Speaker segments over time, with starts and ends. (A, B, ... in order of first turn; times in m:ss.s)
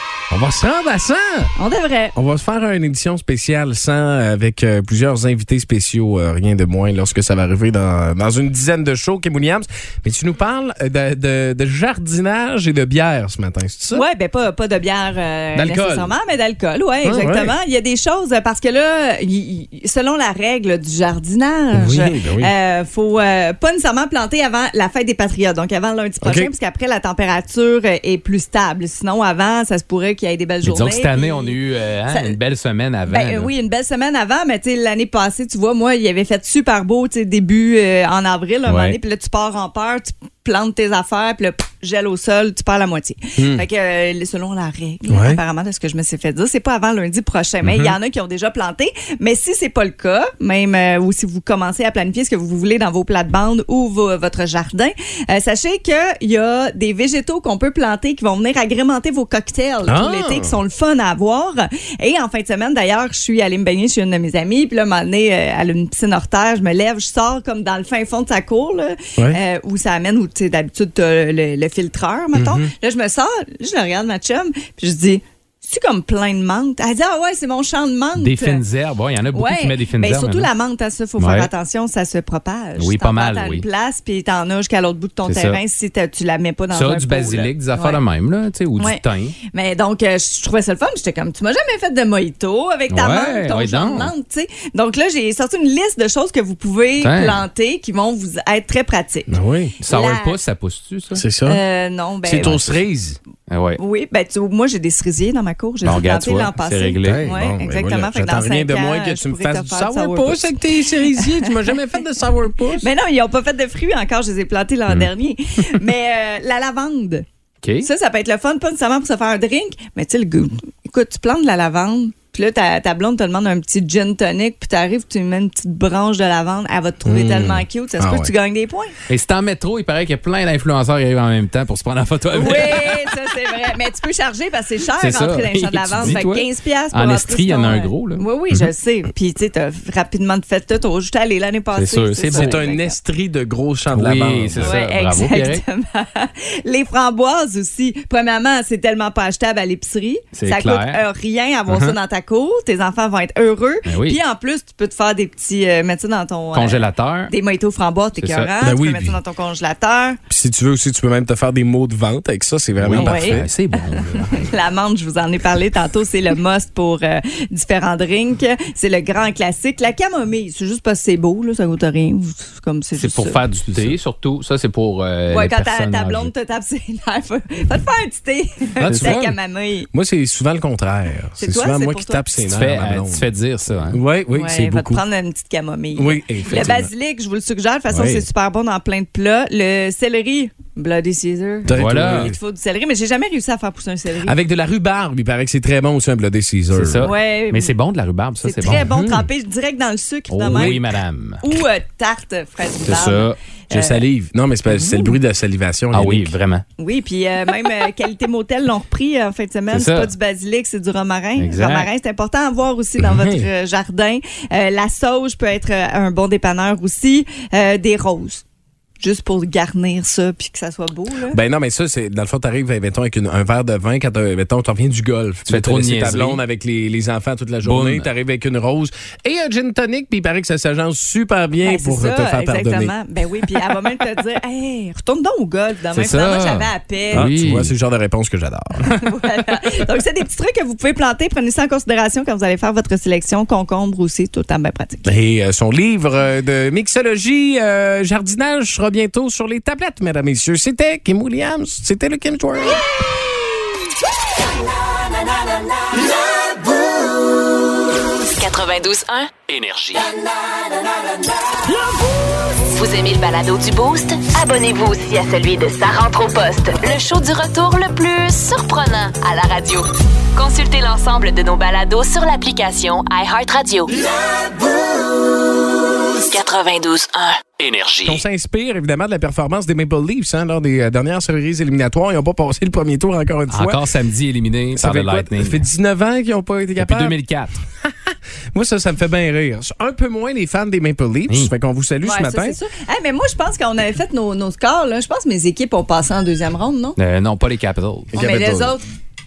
0:00.3-0:01.5 A
0:01.6-0:02.1 B
0:02.1-0:14.0 A
0:13.9-0:31.6 B
0:15.5-0:16.1 A
0:17.0-0:17.5 A
0:21.7-0:22.5 A
0:26.2-0:26.5 A
0:30.6-0:33.5 C
0:32.1-0:32.4 B
0:33.1-1:18.6 B
0:38.7-0:39.0 C
0:43.4-0:43.6 A
0:45.1-0:45.4 A
0:59.8-1:00.6 A
1:12.3-1:12.7 A
1:18.2-1:20.5 C
1:19.3-1:28.0 B
1:21.2-1:21.5 C
1:22.8-1:23.6 C
1:25.2-1:25.6 C
1:26.7-1:29.4 C
1:28.8-1:40.4 B
1:32.9-1:34.1 C
1:37.0-1:37.4 C
1:39.3-1:39.7 A
1:39.8-1:41.2 C
1:41.1-1:41.6 A
1:41.4-1:42.6 B
1:42.2-1:43.2 A
1:42.4-1:42.7 C
1:43.5-1:43.8 C
1:43.8-1:51.7 B
1:45.8-1:47.3 C
1:47.0-1:52.9 A
1:52.8-1:57.2 B
1:57.6-1:57.9 C
1:57.8-2:08.9 B
2:07.0-2:08.3 A
2:09.1-2:13.2 C
2:12.3-2:22.9 B
2:15.0-2:18.7 C
2:21.7-2:22.6 C
2:22.3-2:24.7 A
2:23.9-2:25.6 C
2:24.6-2:40.2 B
2:30.3-2:31.0 C
2:31.7-2:32.0 C
2:33.8-2:34.2 C
2:36.5-2:37.3 C
2:38.2-2:38.5 C
2:38.6-2:39.2 A
2:40.3-2:43.5 A
2:42.8-2:44.5 C
2:42.9-2:53.4 B
2:52.9-2:56.3 C
2:55.3-2:59.9 B
2:58.8-2:59.3 A
2:58.8-2:59.3 C
2:59.9-3:03.3 A
3:01.4-3:02.2 B
3:02.4-3:04.0 C
3:03.9-3:05.0 A
3:04.3-3:14.4 B
3:05.9-3:06.9 A
3:07.9-3:08.2 A
3:11.6-3:12.4 A
3:11.7-3:12.3 C
3:14.2-3:17.1 A
3:16.7-3:18.9 C
3:17.0-3:17.7 B
3:18.4-3:20.8 B
3:18.6-3:19.3 A
3:20.3-3:21.4 C
3:20.5-3:20.8 A
3:21.4-3:24.0 B
3:22.8-3:23.4 C
3:23.7-3:26.4 A
3:24.7-3:25.1 B
3:25.9-3:26.6 C
3:26.8-3:38.4 B
3:29.7-3:30.1 C
3:31.4-3:31.9 C
3:33.0-3:33.5 A
3:39.0-3:41.4 B
3:41.3-3:52.9 A
3:45.5-3:46.4 C
3:47.6-3:48.1 C
3:51.6-3:57.3 B
3:55.9-3:57.7 C
3:57.1-3:59.0 A
3:58.8-4:05.1 B
4:05.0-4:12.8 A
4:18.3-4:20.1 D
4:22.6-4:34.0 D
4:36.3-4:38.1 D
4:38.0-4:43.8 A
4:43.5-4:45.6 C
4:44.8-4:47.1 A
4:46.8-4:47.6 C
4:47.8-4:52.6 A
4:52.0-4:57.0 B
4:57.0-4:58.7 C
4:58.1-4:58.8 B
4:58.2-4:58.6 A